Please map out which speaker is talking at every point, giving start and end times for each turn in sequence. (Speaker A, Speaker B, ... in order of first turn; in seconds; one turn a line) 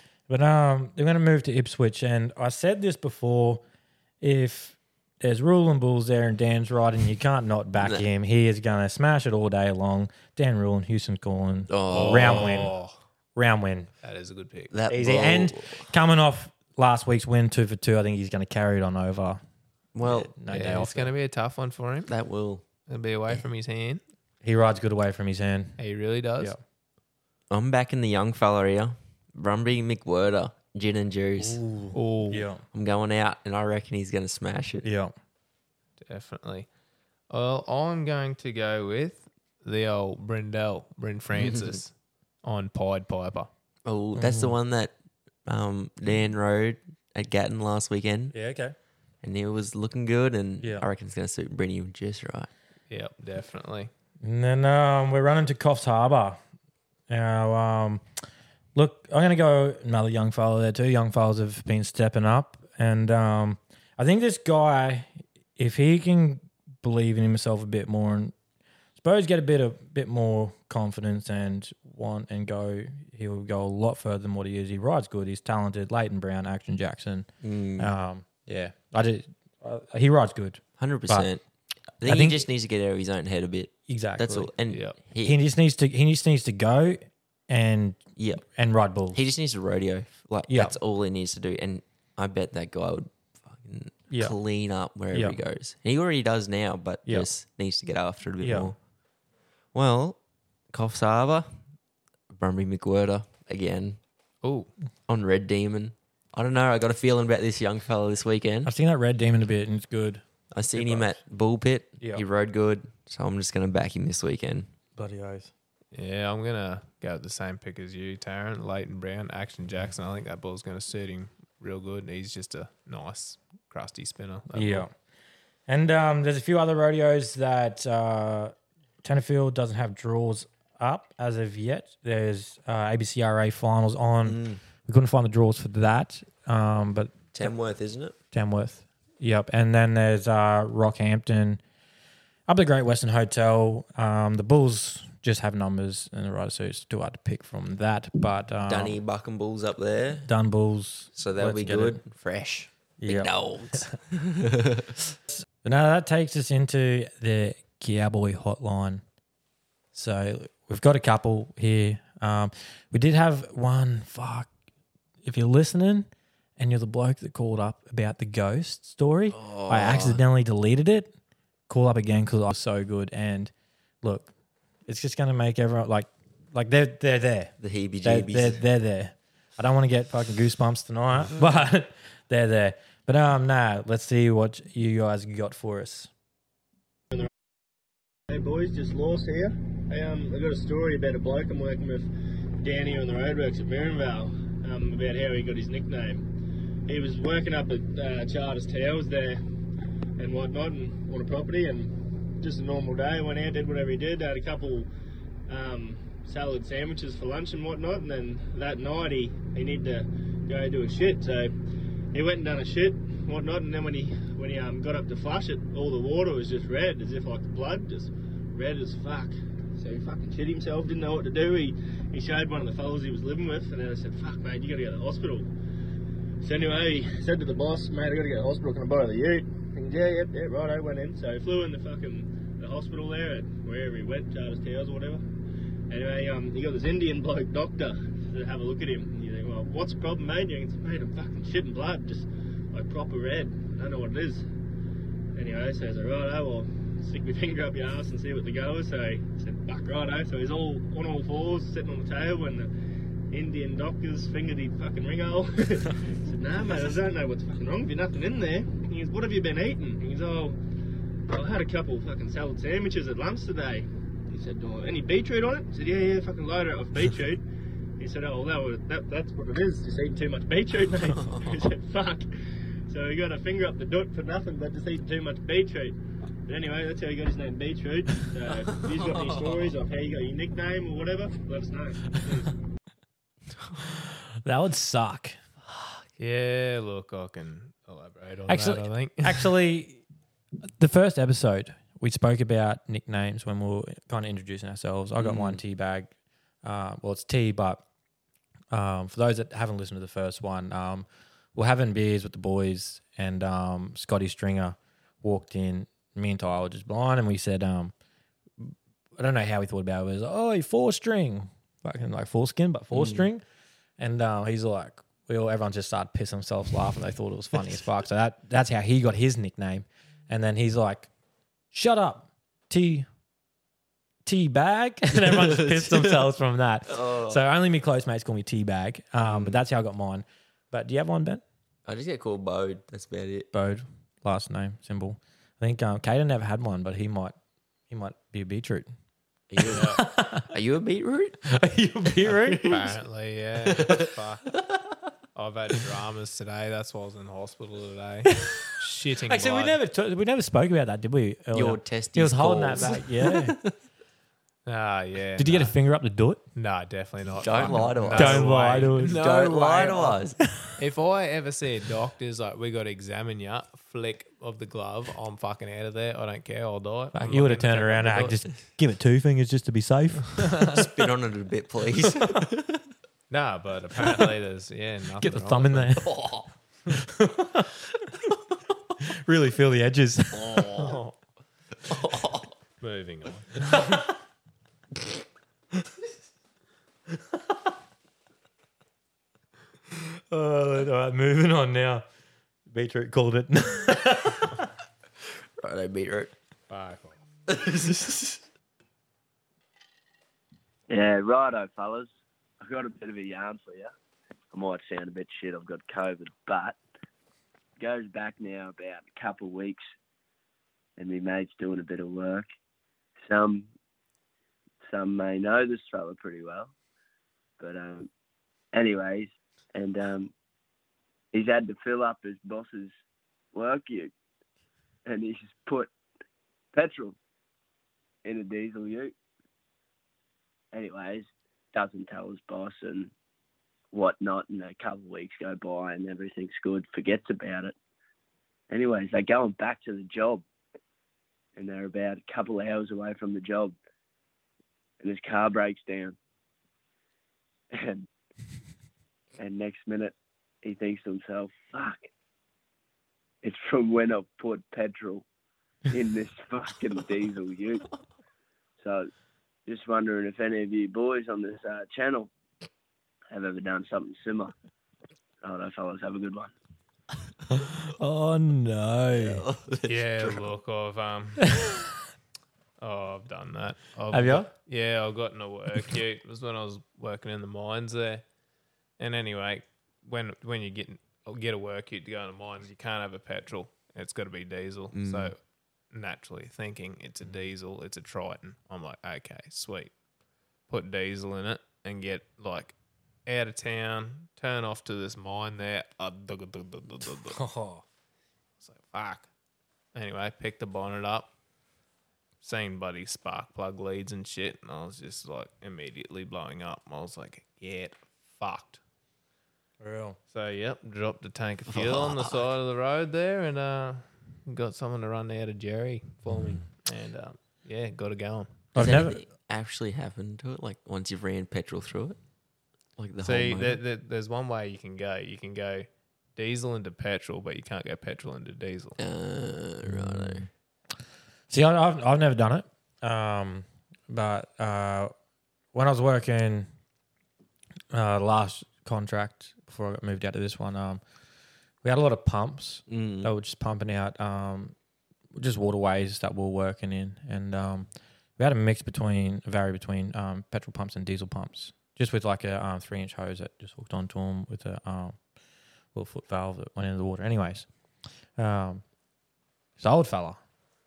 Speaker A: 0.3-3.6
Speaker A: 4.2-12.7
Speaker B: 7.8-8.1
Speaker B: 11.7-12.6
Speaker C: 11.9-12.9
Speaker A: 13.3-13.9
Speaker C: 14.0-14.7
Speaker B: 14.7-15.9
Speaker A: 14.9-19.4
Speaker B: 19.9-20.3
Speaker A: 20.0-21.1
Speaker C: 20.5-22.1
Speaker B: 22.1-22.6
Speaker C: 22.9-24.0
Speaker A: 24.4-25.8
Speaker C: 25.8-26.5
Speaker B: 27.5-31.6
Speaker A: 31.4-32.6
Speaker C: 31.9-32.4
Speaker B: 32.7-34.9
Speaker A: 34.8-35.1
Speaker C: 36.0-36.7
Speaker C: 37.3-41.9
Speaker B: 41.3-41.8
Speaker C: 42.4-43.5
Speaker B: 43.8-44.9
Speaker A: 44.2-44.5
Speaker B: 45.4-48.3
Speaker A: 48.3-48.7
Speaker B: 49.2-52.5
Speaker C: 52.9-53.9
Speaker A: 54.2-56.4
Speaker A: 57.1-58.0
Speaker A: 58.7-68.3
Speaker A: 69.0-81.3
Speaker B: 77.4-77.9
Speaker B: 80.8-81.4
Speaker B: 82.0-85.4
Speaker A: 82.0-82.5
Speaker A: 83.9-84.5
Speaker C: 84.7-85.0
Speaker A: 85.2-89.2
Speaker B: 88.2-88.4
Speaker B: 89.1-98.8
Speaker A: 90.5-90.7
Speaker A: 95.1-95.3
Speaker A: 98.4-98.7
Speaker B: 99.7-100.2
Speaker B: 100.7-101.5
Speaker B: 102.3-104.0
Speaker C: 104.4-104.7
Speaker B: 105.1-108.7
Speaker A: 108.6-111.2
Speaker B: 110.5-114.7
Speaker A: 115.0-115.5
Speaker C: 115.9-124.8
Speaker A: 124.5-124.9
Speaker A: 125.7-137.5
Speaker B: 134.2-134.6
Speaker B: 137.3-138.2
Speaker A: 138.3-141.6
Speaker A: 142.5-149.0
Speaker B: 148.7-150.3
Speaker A: 150.2-152.0
Speaker B: 151.1-155.1
Speaker A: 153.0-153.9
Speaker A: 155.3-159.0
Speaker A: 159.9-164.5
Speaker A: 165.2-171.1
Speaker B: 169.3-170.2
Speaker A: 171.7-174.3
Speaker A: 174.9-186.1
Speaker B: 177.6-178.7
Speaker D: 188.3-196.3
Speaker D: 196.8-199.4
Speaker D: 200.2-204.9
Speaker D: 205.5-211.5
Speaker D: 212.1-225.5
Speaker D: 226.4-235.3
Speaker D: 235.9-244.4
Speaker D: 245.3-252.7
Speaker D: 253.3-260.6
Speaker D: 261.3-267.4
Speaker D: 268.0-272.3
Speaker B: 271.0-271.6
Speaker D: 272.9-282.6
Speaker B: 278.7-279.7
Speaker A: 284.4-285.4
Speaker B: 285.7-286.0
Speaker C: 286.2-289.5
Speaker A: 288.5-290.0
Speaker A: 290.8-296.1
Speaker B: 295.2-295.6
Speaker A: 296.6-297.8
Speaker A: 298.7-307.9
Speaker A: 308.6-313.4
Speaker B: 312.9-313.3
Speaker A: 314.0-321.1
Speaker A: 321.7-323.1
Speaker A: 324.2-331.4
Speaker B: 325.1-326.3
Speaker B: 326.9-327.4
Speaker B: 329.2-329.6
Speaker B: 331.9-333.5
Speaker A: 333.5-337.3
Speaker A: 337.9-338.9
Speaker B: 339.5-341.4
Speaker A: 339.6-340.4
Speaker C: 339.7-340.0
Speaker A: 341.5-342.7
Speaker B: 342.2-342.9
Speaker C: 342.6-344.5
Speaker B: 343.8-344.1
Speaker C: 345.3-349.8
Speaker A: 348.3-348.7
Speaker A: 349.3-353.5
Speaker B: 351.5-353.7
Speaker C: 354.6-355.7
Speaker A: 355.4-356.4
Speaker C: 356.6-360.2
Speaker B: 357.4-360.4
Speaker A: 358.1-359.2
Speaker C: 360.8-368.5
Speaker A: 367.1-370.8
Speaker B: 370.7-372.9
Speaker C: 373.3-376.0
Speaker A: 375.2-376.1
Speaker B: 376.0-376.5
Speaker A: 376.9-377.7
Speaker A: 379.2-381.0
Speaker B: 380.3-381.0
Speaker B: 381.9-382.6
Speaker C: 382.8-383.9
Speaker A: 383.7-384.1
Speaker A: 390.3-392.0
Speaker A: 392.7-394.6
Speaker B: 395.6-396.3
Speaker C: 396.7-397.1
Speaker B: 397.5-398.4
Speaker E: 400.9-403.9
Speaker E: 404.5-406.8
Speaker E: 407.8-409.8
Speaker E: 411.0-412.5
Speaker E: 413.2-413.7
Speaker E: 414.9-416.7
Speaker E: 417.6-418.1
Speaker E: 418.7-420.3
Speaker E: 421.3-422.9
Speaker E: 423.5-424.1
Speaker E: 425.1-425.9
Speaker E: 426.7-427.1
Speaker E: 428.2-429.1
Speaker E: 430.7-433.1
Speaker E: 433.9-437.7
Speaker E: 438.7-440.4
Speaker E: 441.6-443.8
Speaker E: 445.0-446.1
Speaker E: 447.7-448.1
Speaker E: 449.4-452.1
Speaker E: 453.4-455.2
Speaker E: 455.9-457.9
Speaker E: 458.8-459.1
Speaker E: 459.6-462.3
Speaker E: 463.3-464.5
Speaker E: 465.4-466.5
Speaker A: 467.9-469.4
Speaker B: 469.1-470.5
Speaker C: 469.9-471.5
Speaker C: 472.8-478.2
Speaker A: 474.1-474.5
Speaker C: 479.0-485.4
Speaker B: 484.9-485.3
Speaker C: 485.9-489.9
Speaker C: 490.7-492.7
Speaker C: 493.2-497.4
Speaker A: 497.1-497.8
Speaker C: 498.6-499.3
Speaker C: 499.9-501.3
Speaker C: 502.4-508.8
Speaker A: 509.8-510.2
Speaker C: 510.3-519.0
Speaker B: 511.7-512.5
Speaker A: 518.7-519.2
Speaker B: 518.7-522.2
Speaker B: 523.0-523.8
Speaker C: 523.2-529.0
Speaker B: 529.0-530.5
Speaker A: 529.8-530.5
Speaker A: 531.5-535.1
Speaker A: 535.7-536.7
Speaker A: 537.9-541.0
Speaker A: 541.8-544.7
Speaker B: 542.9-543.3
Speaker A: 545.3-555.2
Speaker A: 555.9-557.7
Speaker A: 558.4-558.8
Speaker A: 559.8-560.4